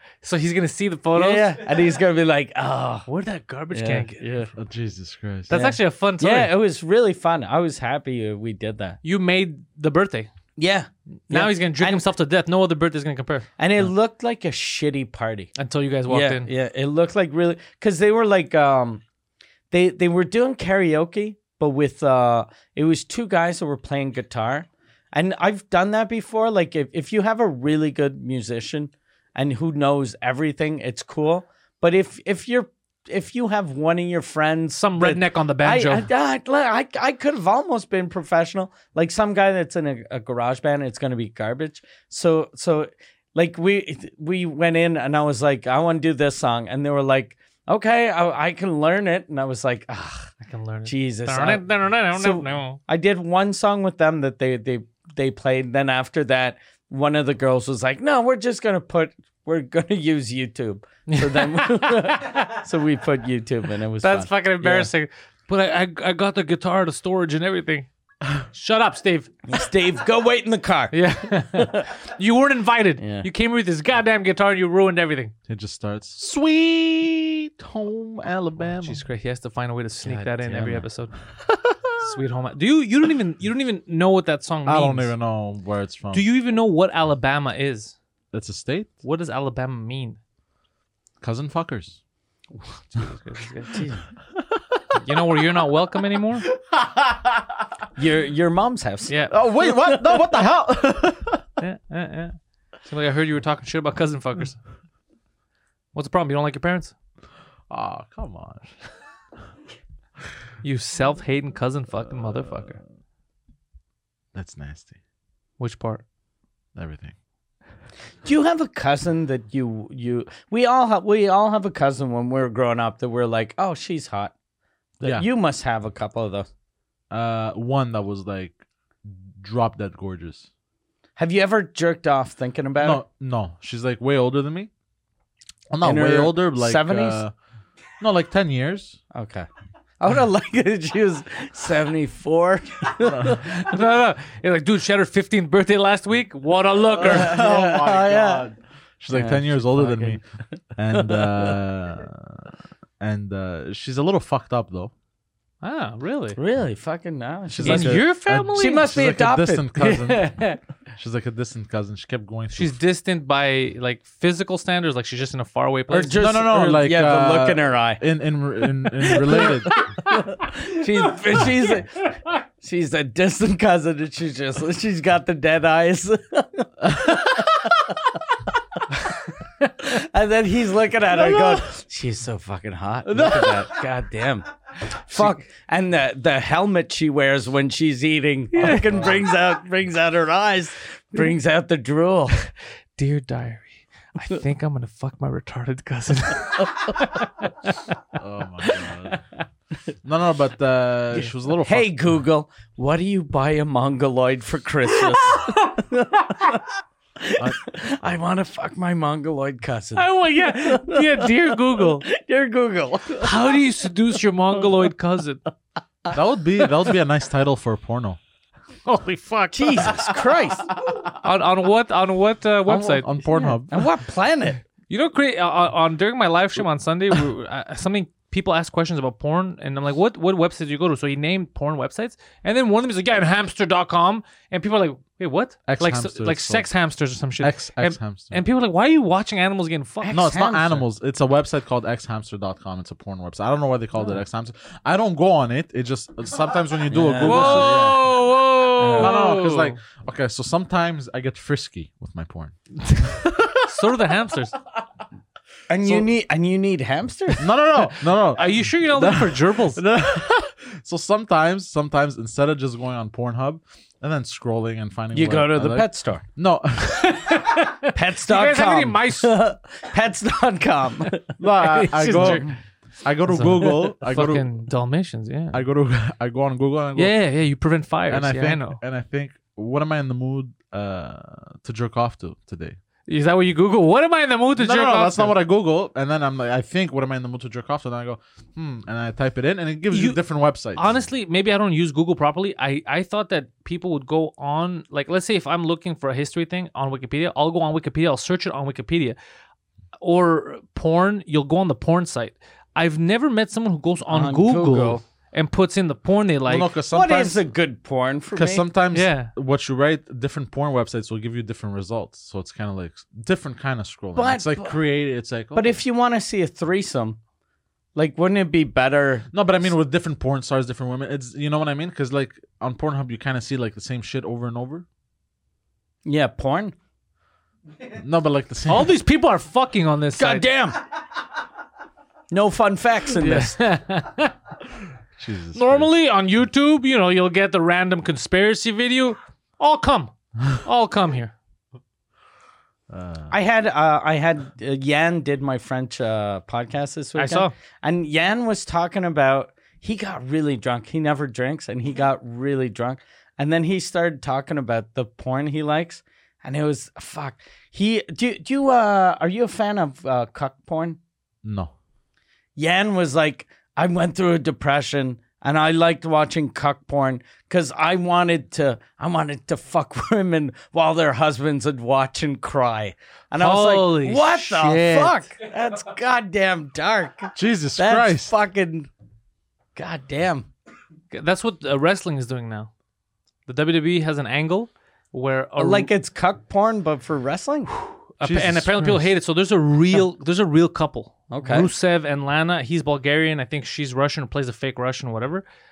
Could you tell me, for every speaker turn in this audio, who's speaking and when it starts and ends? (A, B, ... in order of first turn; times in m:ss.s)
0:00.2-0:01.6 A
0:01.2-0:03.1 B
0:03.1-0:04.2 A
0:03.7-0:04.5 B
0:04.6-0:05.5 C
0:05.5-0:06.5 A
0:05.5-0:09.0 B
0:09.0-0:10.3 A
0:10.6-0:12.0 B
0:11.3-0:13.5 A
0:13.6-0:15.5 B
0:15.6-0:16.5 A
0:16.1-0:19.0 B
0:19.7-0:50.3 B
0:34.8-0:36.1 A
0:50.4-0:52.8 A
0:50.9-1:04.9 B
1:01.1-1:02.6 A
1:04.0-1:07.9 A
1:08.5-1:09.3 A
1:09.5-1:11.0 B
1:10.9-1:15.3 A
1:11.5-1:11.9 B
1:13.0-1:13.3 B
1:15.5-1:19.0 C
1:18.8-1:21.2 A
1:20.1-1:20.8 B
1:21.4-1:21.9 C
1:22.0-1:25.1 A
1:24.7-1:26.3 C
1:26.1-1:28.0 A
1:28.3-1:28.9 C
1:29.0-1:30.2 A
1:31.2-1:32.0 C
1:32.9-1:33.9 A
1:33.7-1:34.0 B
1:35.0-1:36.5 A
1:36.7-1:37.6 C
1:38.0-1:40.3 B
1:39.1-1:39.4 A
1:39.3-1:41.5 C
1:41.6-1:44.6 A
1:45.9-1:46.9 A
1:47.7-1:48.7 C
1:50.6-1:52.8 A
1:52.0-1:52.7 C
1:54.3-1:55.0 C
1:55.6-1:56.0 A
1:56.8-1:57.1 C
1:58.2-2:04.3 B
2:05.0-2:06.5 B
2:07.1-2:10.5 C
2:11.2-2:13.0 B
2:12.8-2:14.7 C
2:15.7-2:17.3 C
2:15.8-2:17.2 B
2:18.0-2:19.0 C
2:19.1-2:19.5 B
2:20.0-2:23.6 B
2:23.3-2:27.4 A
2:27.0-2:30.2 C
2:27.0-2:28.5 B
2:29.1-2:30.2 B
2:30.8-2:34.9 C
2:30.9-2:31.5 B
2:35.6-2:36.4 A
2:36.4-2:40.0 B
2:37.5-2:40.4 C
2:37.6-2:38.9 A
2:39.8-2:40.6 A
2:41.0-2:42.8 C
2:42.5-2:46.2 A
2:45.9-2:48.0 B
2:46.1-2:49.8 C
2:49.2-2:52.1 B
2:49.3-2:52.3 A
2:52.6-2:57.9 B
2:56.9-2:57.7 C
2:59.8-3:12.4 B
3:01.2-3:01.6 C
3:03.2-3:03.6 A
3:03.2-3:03.5 C
3:08.5-3:09.0 A
3:13.0-3:17.9 A
3:18.1-3:19.2 C
3:20.0-3:22.0 C
3:21.6-3:26.6 B
3:25.2-3:25.8 A
3:27.2-3:33.6 B
3:30.0-3:32.1 A
3:33.2-3:35.4 A
3:36.1-3:38.2 C
3:38.9-3:40.2 A
3:39.5-3:40.7 B
3:40.8-3:41.1 C
3:41.2-3:43.1 A
3:42.7-3:43.9 C
3:43.2-3:44.6 B
3:44.9-4:00.2 A
3:55.7-3:56.7 C
3:57.4-3:58.4 C
4:00.0-4:00.8 B
4:00.1-4:08.1 C
4:06.9-4:07.9 B
4:07.2-4:09.8 A
4:08.8-4:09.2 B
4:09.0-4:13.6 C
4:13.6-4:14.6 A
4:15.7-4:17.5 B
4:17.4-4:27.4 C
4:18.3-4:19.8 A
4:25.1-4:26.2 B
4:26.8-4:29.3 A
4:27.8-4:31.4 B
4:31.4-4:32.5 C
4:31.6-4:32.5 A
4:32.0-4:32.5 B
4:33.0-4:34.5 C
4:33.3-4:35.6 A
4:35.5-4:37.2 C
4:37.0-4:38.8 A
4:38.1-4:42.8 C
4:43.1-4:45.4 A
4:44.6-4:51.0 C
4:49.9-4:50.2 A
4:50.8-4:59.2 A
5:00.0-5:06.7 A
5:04.1-5:05.0 B
5:06.5-5:07.4 C
5:06.9-5:08.6 B
5:08.3-5:15.8 C
5:08.9-5:09.3 A
5:14.2-5:14.8 B
5:15.5-5:17.2 B
5:18.0-5:19.3 B
5:19.3-5:24.9 C
5:26.1-5:26.7 B
5:27.9-5:28.9 C
5:28.7-5:30.4 A
5:30.2-5:30.8 B
5:32.3-5:33.6 B
5:33.2-5:34.4 A
5:35.2-5:35.9 C
5:35.5-5:41.4 A
5:42.9-5:43.3 C
5:43.3-6:01.0 B
5:47.2-5:47.5 A
6:01.4-6:01.7 C
6:02.6-6:18.9 B
6:13.4-6:15.3 A
6:17.4-6:18.3 C
6:19.8-6:20.5 B
6:21.1-6:22.7 A
6:23.5-6:25.9 A
6:25.6-6:27.8 B
6:28.2-6:35.4 A
6:28.2-6:29.1 C
6:31.3-6:31.7 B